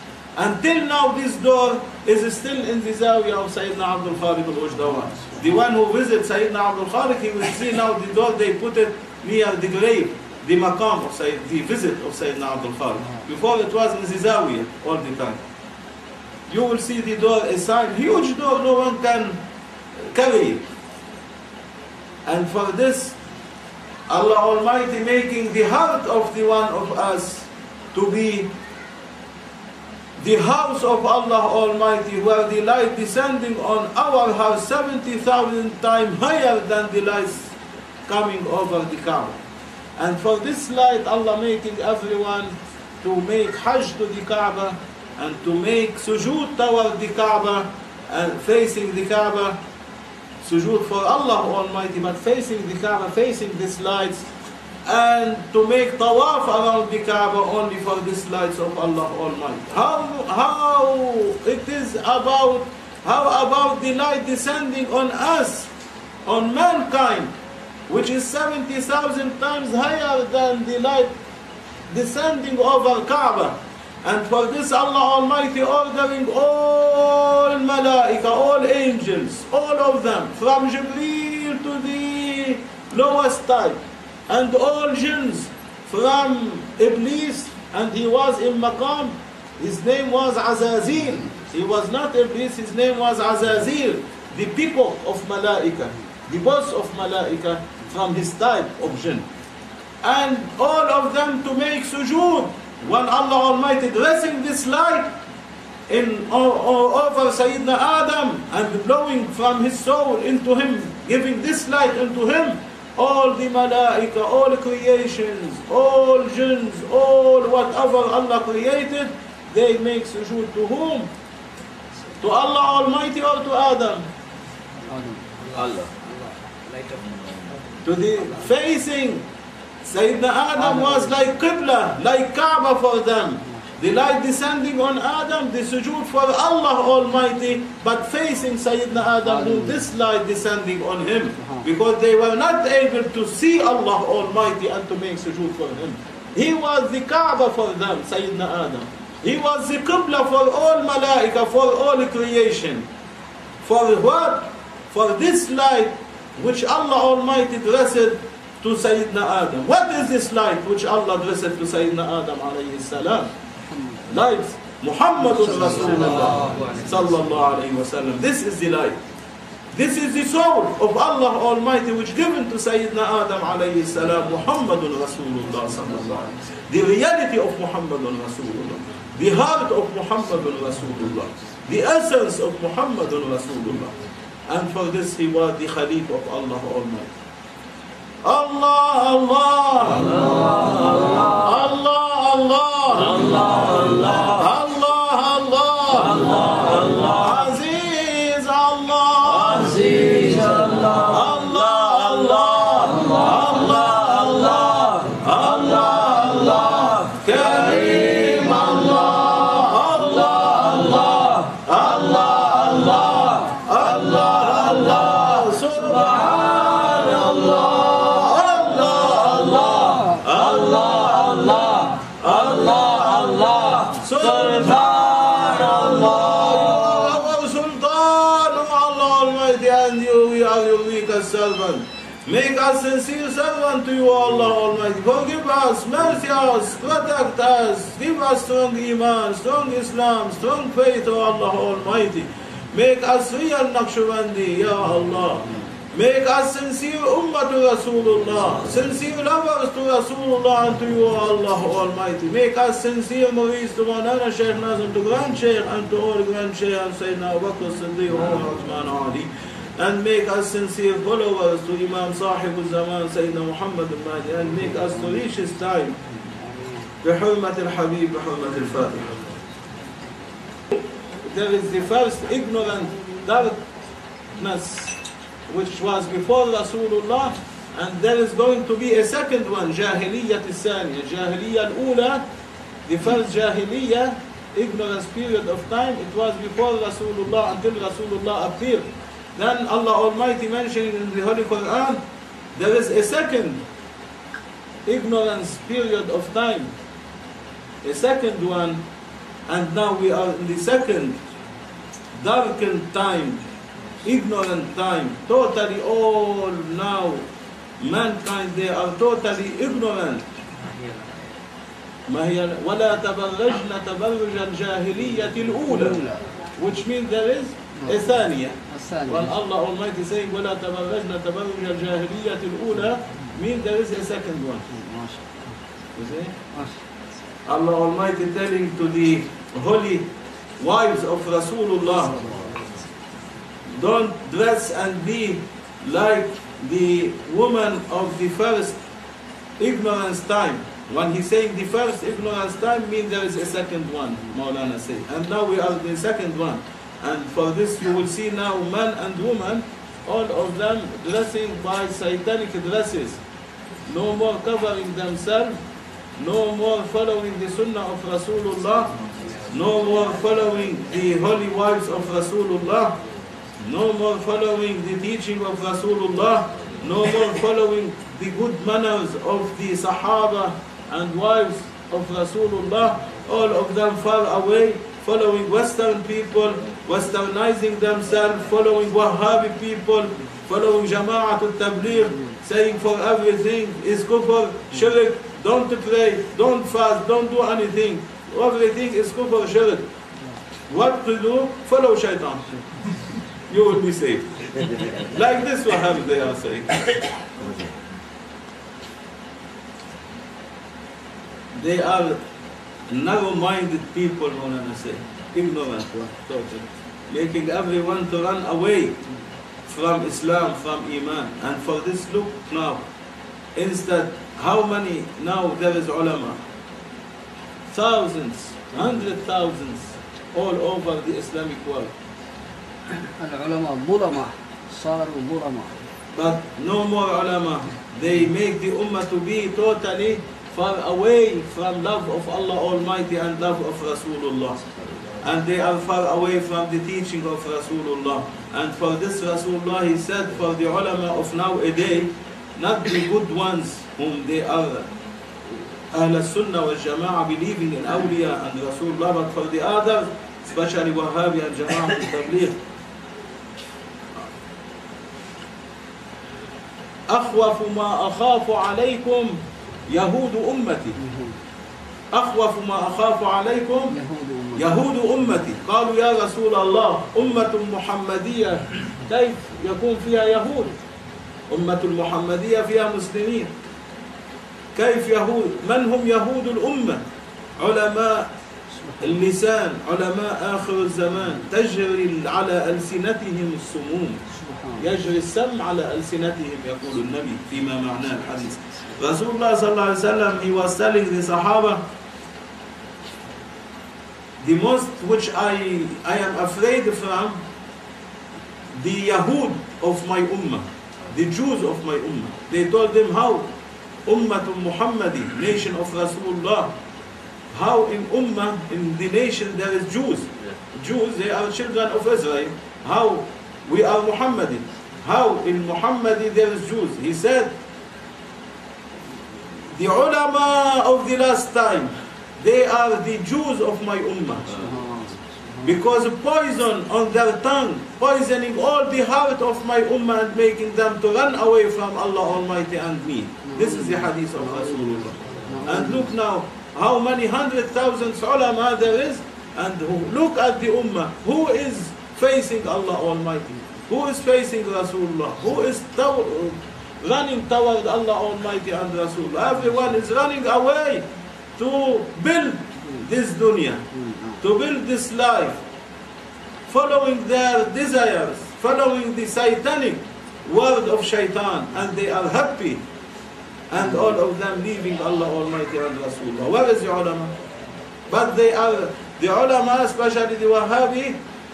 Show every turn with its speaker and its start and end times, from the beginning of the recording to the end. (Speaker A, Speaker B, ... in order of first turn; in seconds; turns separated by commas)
Speaker A: 0.4-15.4, Speaker A: 16.5-19.4, Speaker A: 20.0-20.7, Speaker A: 22.2-23.2, Speaker A: 24.1-28.5, Speaker A: 30.2-37.5, Speaker A: 38.1-39.4, Speaker A: 40.0-49.6, Speaker A: 50.4-54.3, Speaker A: 54.9-65.7, Speaker A: 66.3-67.3, Speaker A: 67.9-71.1, Speaker A: 71.9-99.3, Speaker A: 100.0-105.2, Speaker A: 105.9-121.1, Speaker A: 122.2-124.1, Speaker B: 124.9-125.5, Speaker A: 125.5-125.9, Speaker A: 127.8-129.3, Speaker A: 129.8-152.9, Speaker B: 130.6-131.3, Speaker B: 139.2-139.8, Speaker B: 141.4-141.7, Speaker A: 153.6-163.3, Speaker B: 163.7-164.1, Speaker A: 164.1-169.0, Speaker B: 165.8-166.6, Speaker A: 169.7-183.9, Speaker A: 184.5-187.1, Speaker A: 188.2-200.0, Speaker A: 200.7-266.0, Speaker A: 267.0-269.3, Speaker A: 271.2-273.6, Speaker A: 274.3-275.0, Speaker A: 275.5-282.2, Speaker A: 282.9-292.0, Speaker A: 292.5-293.6, Speaker A: 294.9-296.7, Speaker A: 297.8-298.8, Speaker A: 299.5-301.2, Speaker A: 302.1-303.4, Speaker A: 304.0-307.3, Speaker A: 307.8-310.3, Speaker A: 312.1-316.0, Speaker B: 315.7-316.2, Speaker A: 316.6-324.6, Speaker B: 317.8-318.1, Speaker B: 318.7-319.3, Speaker B: 324.7-325.6, Speaker A: 325.9-326.4, Speaker A: 327.5-332.2, Speaker B: 332.2-332.6, Speaker A: 333.7-338.8, Speaker A: 339.6-353.2, Speaker A: 353.9-355.6, Speaker A: 356.2-359.0, Speaker A: 359.5-363.0, Speaker A: 363.6-389.9, Speaker A: 390.7-392.4, Speaker A: 393.5-397.1, Speaker A: 401.5-402.2, Speaker A: 402.9-409.0, Speaker A: 409.7-412.9, Speaker A: 413.6-416.4, Speaker A: 417.7-421.9, Speaker B: 423.0-425.7, Speaker A: 426.1-434.6, Speaker A: 435.2-444.9, Speaker A: 445.5-452.6, Speaker A: 457.1-461.0, Speaker B: 461.0-461.4, Speaker A: 462.1-464.0, Speaker B: 463.9-464.7, Speaker A: 464.6-470.8, Speaker A: 471.5-473.5, Speaker A: 474.7-477.0, Speaker A: 477.6-478.3, Speaker B: 478.8-479.1, Speaker A: 479.0-484.2, Speaker B: 484.3-484.9, Speaker A: 484.8-491.8, Speaker A: 494.4-497.4, Speaker A: 498.7-503.5, Speaker A: 504.1-506.8, Speaker A: 507.5-517.6, Speaker A: 519.6-524.7, Speaker B: 524.5-525.7, Speaker A: 525.6-551.1, Speaker B: 533.5-534.1, Speaker B: 535.5-536.1, Speaker A: 551.6-553.9, Speaker B: 553.9-554.4, Speaker A: 554.4-555.6, Speaker A: 556.7-562.8, Speaker A: 563.7-567.4, Speaker A: 568.1-571.2